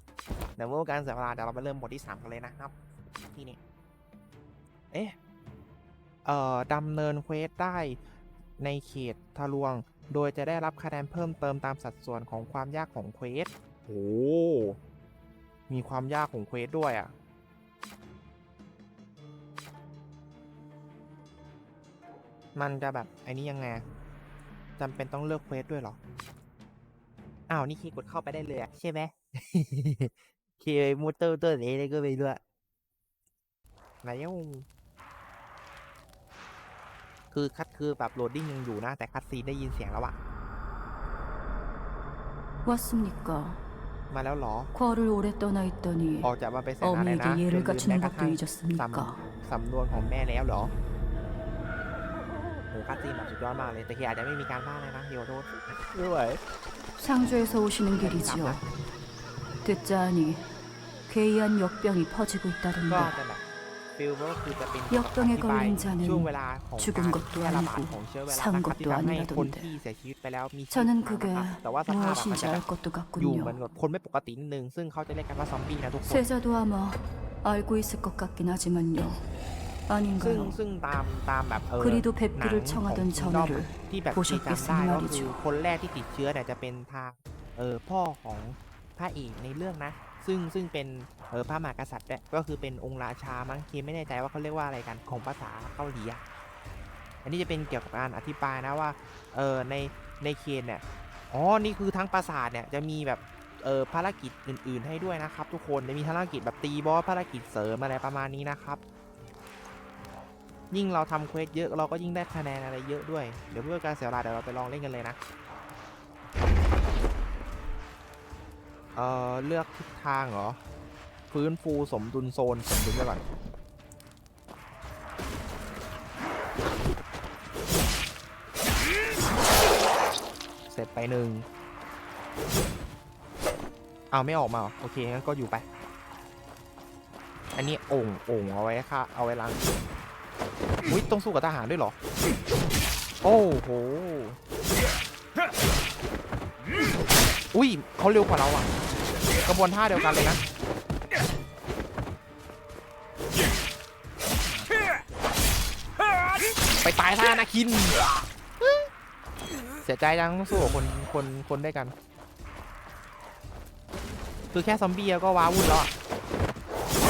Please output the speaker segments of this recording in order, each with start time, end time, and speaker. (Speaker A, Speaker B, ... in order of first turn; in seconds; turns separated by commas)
Speaker A: 0.6-2.7, Speaker A: 3.3-3.6, Speaker A: 6.2-8.0, Speaker A: 8.6-14.8, Speaker A: 15.7-17.1, Speaker A: 22.6-23.8, Speaker A: 24.8-26.0, Speaker A: 27.5-32.4, Speaker A: 34.0-34.6, Speaker A: 37.3-40.2, Speaker B: 42.6-43.6, Speaker A: 44.1-44.7, Speaker B: 44.7-46.3, Speaker A: 46.2-50.7, Speaker B: 46.8-49.3, Speaker A: 52.7-56.4, Speaker B: 57.0-58.6, Speaker A: 58.0-58.6, Speaker B: 59.6-60.5, Speaker B: 61.1-63.1, Speaker A: 62.9-63.4, Speaker A: 64.0-72.6, Speaker B: 64.9-69.8, Speaker B: 70.7-73.6, Speaker A: 73.2-76.3, Speaker B: 76.0-79.2, Speaker B: 79.9-80.6, Speaker A: 80.2-96.2, Speaker B: 81.8-85.4, Speaker A: 97.2-108.8, Speaker A: 110.7-115.2, Speaker A: 119.0-120.6, Speaker A: 121.3-123.2, Speaker A: 130.7-131.4, Speaker A: 134.1-135.6, Speaker A: 137.5-139.6, Speaker A: 140.9-141.9, Speaker A: 143.2-144.4, Speaker A: 147.5-148.7, Speaker A: 149.4-150.4, Speaker A: 156.8-158.0, Speaker A: 158.6-158.9, Speaker A: 159.8-161.9, Speaker A: 164.5-165.9